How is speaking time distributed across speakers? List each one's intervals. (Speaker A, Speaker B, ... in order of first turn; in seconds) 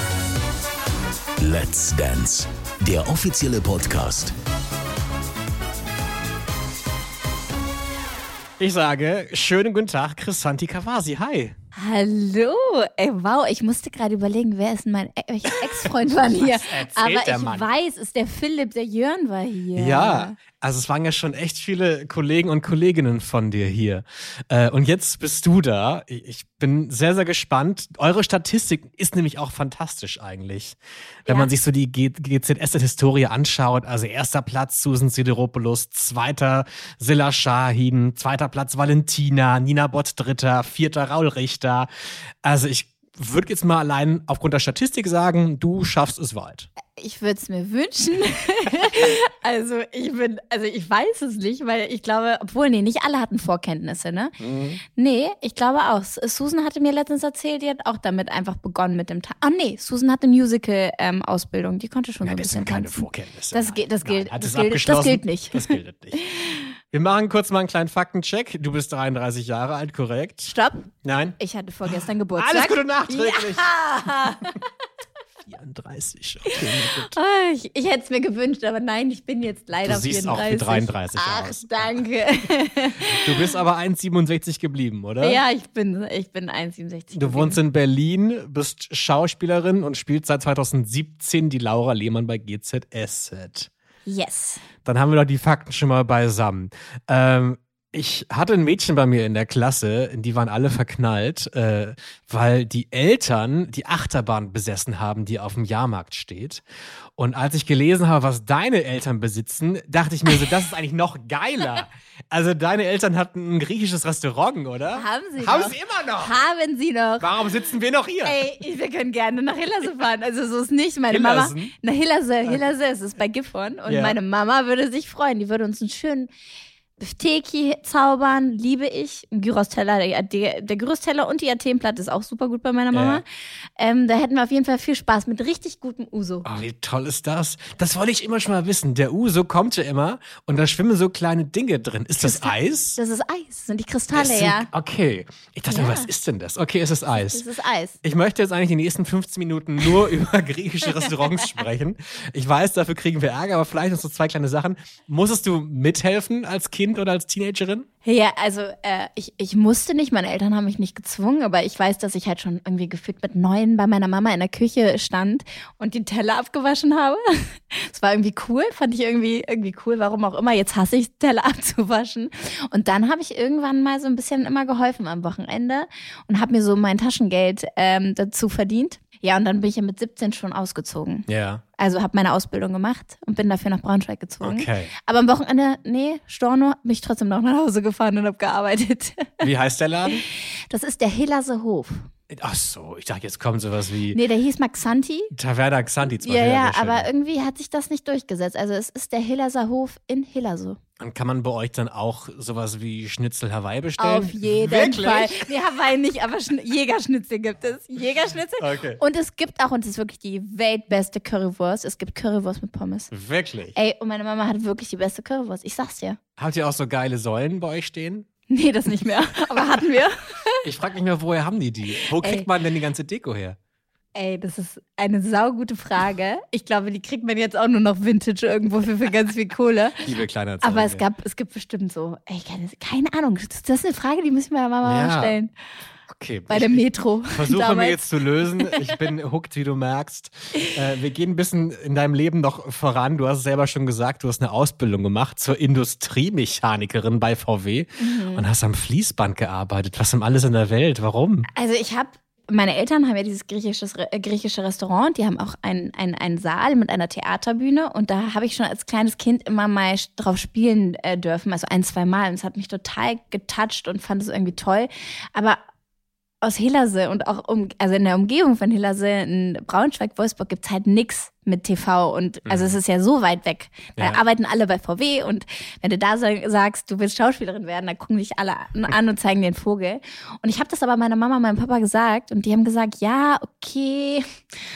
Speaker A: 1.4-4.3
Speaker B: 8.6-11.6, 16.1-17.7, 19.8-41.9, 42.4-46.7, 54.4-54.8, 62.2-66.3, 66.9-71.4, 71.9-74.3, 75.5-77.1, 79.8-81.9, 83.0-85.4, 87.1-93.7, 94.8-106.6, 107.2-116.4, 117.2-118.4, 121.1-121.7, 123.9-124.2, 132.9-133.2, 136.4-143.0, 144.2-147.4, 148.0-157.9, 181.3-181.6, 184.4-184.9, 189.4-190.2, 192.3-194.2, 195.3-197.1, 201.0-205.5, 208.6-209.0, 213.1-213.8, 216.4-218.3, 220.6-223.6, 230.0-231.0, 234.8-235.4, 236.1-251.5, 272.5-272.8, 274.0-274.2
Speaker C: 11.8-20.4, 31.3-31.5, 47.0-54.4, 54.9-66.7, 70.5-74.7, 76.6-83.5, 85.2-87.6, 94.1-94.6, 115.0-117.4, 118.2-126.3, 127.0-133.2, 133.8-136.4, 142.2-144.7, 145.7-146.1, 147.3-148.0, 150.9-151.5, 158.0-189.5, 190.1-192.1, 194.1-195.3, 196.2-200.8, 204.0-213.1, 213.8-216.2, 218.5-220.6, 222.0-222.5, 224.2-230.1, 230.6-235.5, 236.5-238.1, 238.6-238.9, 248.0-248.5, 251.5-265.6, 266.4-284.3